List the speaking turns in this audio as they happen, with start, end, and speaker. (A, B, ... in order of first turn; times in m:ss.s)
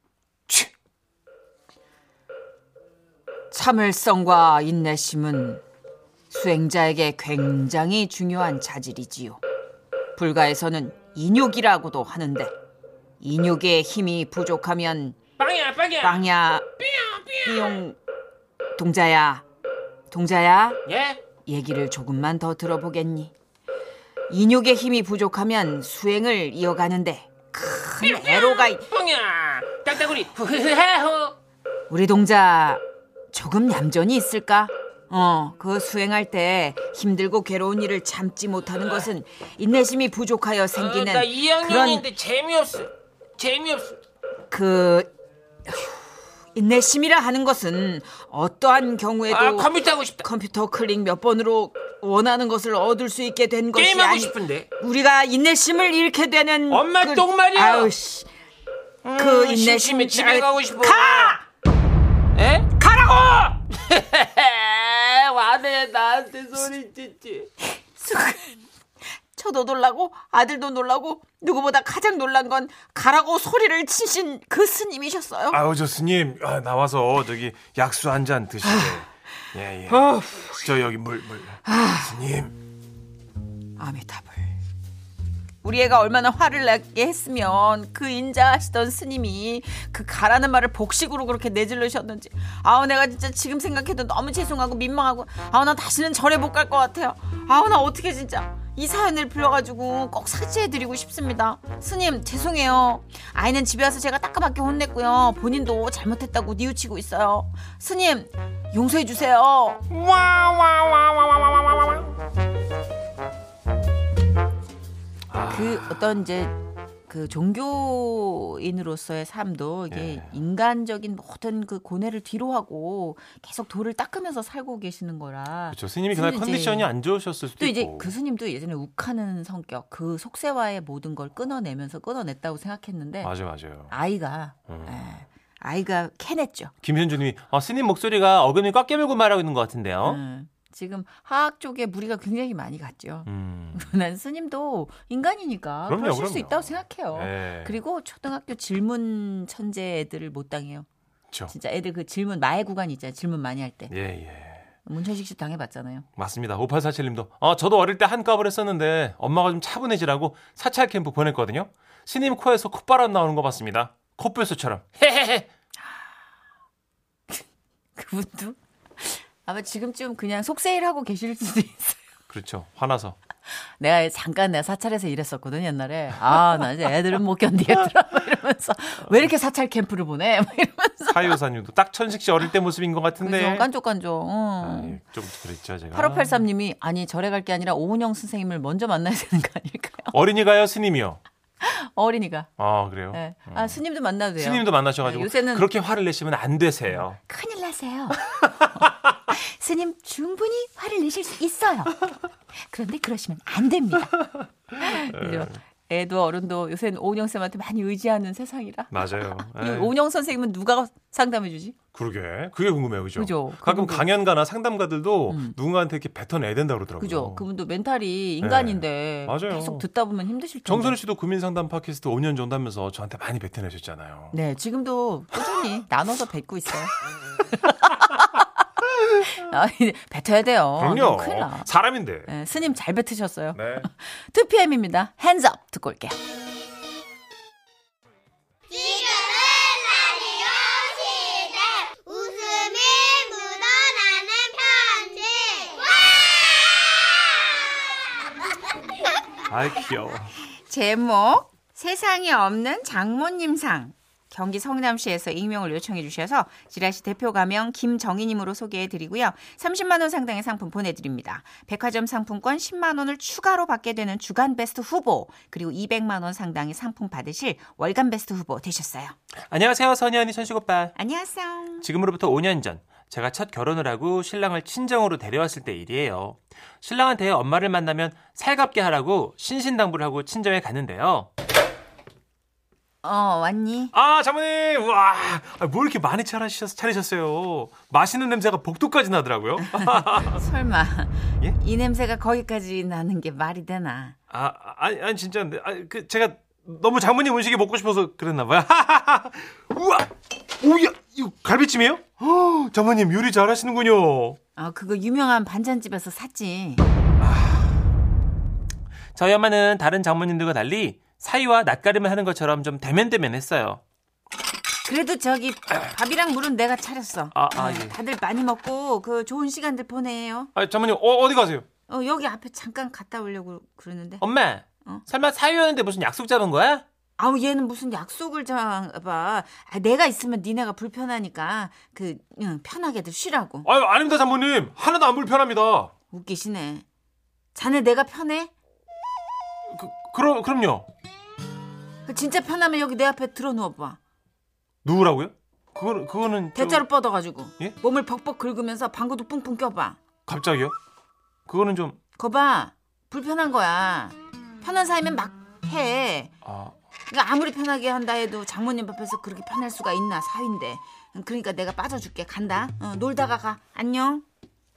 0:03.5-0:05.6 A
0:06.3-0:09.4 A
0:10.1-0:12.5 A
0:13.2-0:15.2 A
0:15.4-0:16.2 B
0:16.0-0:16.7 A
0:16.8-0:17.8 B
0:17.4-0:18.0 A
0:18.8-0:19.4 A
0:20.1-0:20.8 A
0:20.8-0:21.2 B
0:21.4-0:23.3 A
0:24.3-0:28.8 A
0:28.0-0:31.3 B
0:31.9-0:42.1 A
0:40.7-0:44.0 B
0:44.5-0:45.1 A
0:45.7-0:46.0 A
0:46.5-0:58.3 A
0:49.3-0:50.2 B
0:53.8-0:54.6 B
0:56.7-0:57.9 B
0:56.8-0:57.4 C
0:59.0-1:01.4 B
0:59.2-1:01.4 A
1:02.4-1:02.6 B
1:02.8-1:03.6 A
1:03.7-1:07.5 B
1:08.0-1:08.6 A
1:09.3-1:15.6 A
1:15.5-1:22.5 C
1:18.6-1:19.0 A
1:19.9-1:20.5 A
1:21.6-1:22.2 A
1:23.8-1:24.6 A
1:25.6-1:49.8 A
1:49.9-1:52.1 C
1:55.3-1:55.9 C
1:55.5-2:06.9 A
1:59.9-2:00.4 C
2:05.7-2:08.1 C
2:07.6-2:13.3 A
2:13.2-2:13.9 C
2:13.9-2:16.7 A
2:14.7-2:15.0 C
2:16.8-2:20.2 C
2:20.0-2:30.8 A
2:23.2-2:23.9 C
2:25.9-2:27.8 C
2:31.5-2:33.9 A
2:33.9-2:34.6 C
2:34.8-2:36.0 A
2:36.2-2:45.4 C
2:48.0-2:52.0 A
2:52.3-2:53.2 C
2:53.8-3:01.4 A
3:01.1-3:03.7 C
3:03.2-3:05.0 A
3:04.6-3:06.4 C
3:05.9-3:10.1 A
3:10.1-3:11.2 C
3:11.6-3:12.5 A
3:12.6-3:13.8 C
3:13.1-3:15.7 A
3:14.4-3:17.2 C
3:17.2-3:18.2 A
3:18.8-3:24.2 A
3:24.8-3:31.8 A
3:24.8-3:25.6 C
3:28.9-3:29.9 C
3:31.9-3:37.4 C
3:33.2-3:34.0 A
3:35.3-3:35.6 A
3:37.0-3:41.0 A
3:38.4-3:39.8 C
3:40.6-3:44.4 C
3:44.3-3:46.9 A
3:47.8-3:48.4 A
3:49.2-3:51.7 A
3:50.8-3:52.3 C
3:52.3-3:56.2 A
3:53.5-3:53.9 C
3:58.7-4:07.6 D
4:09.5-4:10.3 C
4:10.6-4:29.2 A
4:29.5-4:30.9 C
4:31.0-4:31.9 A
4:31.8-4:41.3 C
4:43.0-4:43.9 A
4:43.9-4:50.4 C
4:49.6-4:54.2 A
4:54.3-5:04.4 C
5:04.6-5:06.8 A
5:07.2-5:07.8 C
5:09.1-5:13.8 C
5:14.8-5:20.5 A
5:17.3-5:18.0 C
5:20.6-5:21.6 C
5:21.9-5:24.2 A
5:24.2-5:26.8 C
5:27.2-5:33.7 A
5:33.6-5:35.9 C
5:36.1-5:36.8 A
5:37.5-5:38.5 A
5:39.7-5:40.9 C
5:42.1-5:44.0 A
5:44.8-5:46.9 C
5:46.5-5:50.0 A
5:50.3-5:50.7 C
5:51.5-5:52.0 C
5:52.2-5:56.3 A
5:56.4-5:56.8 C
5:57.1-6:04.2 A